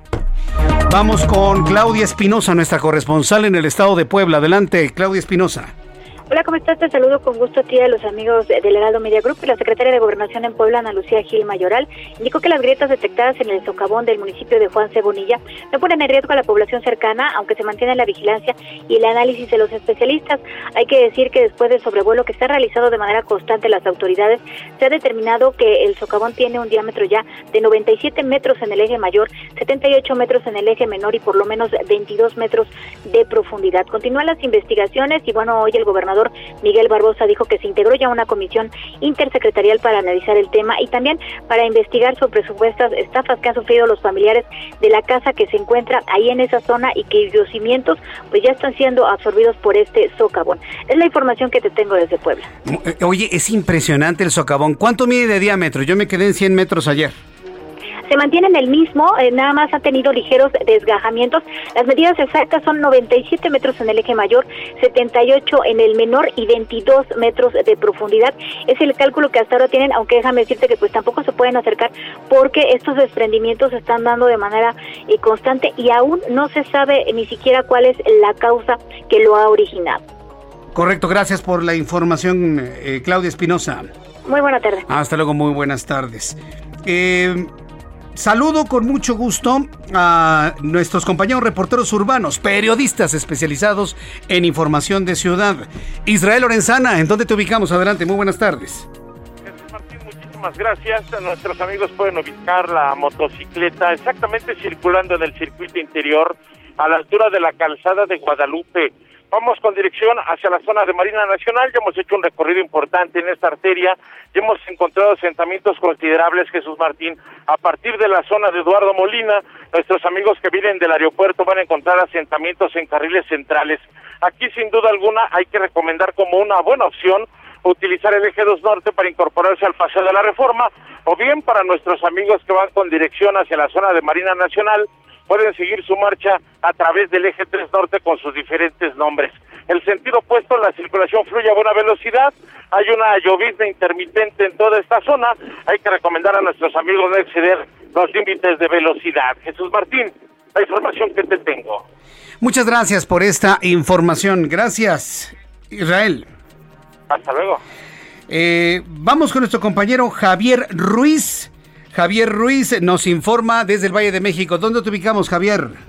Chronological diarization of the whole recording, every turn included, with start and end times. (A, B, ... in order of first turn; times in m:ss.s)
0:00.9-0:05.7 A
0:06.3-0:52.5 B
0:52.6-0:57.1 A
0:58.1-1:20.0 B
1:20.7-1:23.9 A
1:24.2-1:24.8 B
1:24.9-1:27.5 A
1:28.1-1:38.9 A
1:39.5-2:31.8 C
2:32.4-2:36.2 A
2:37.1-2:37.6 C
2:38.3-2:45.8 A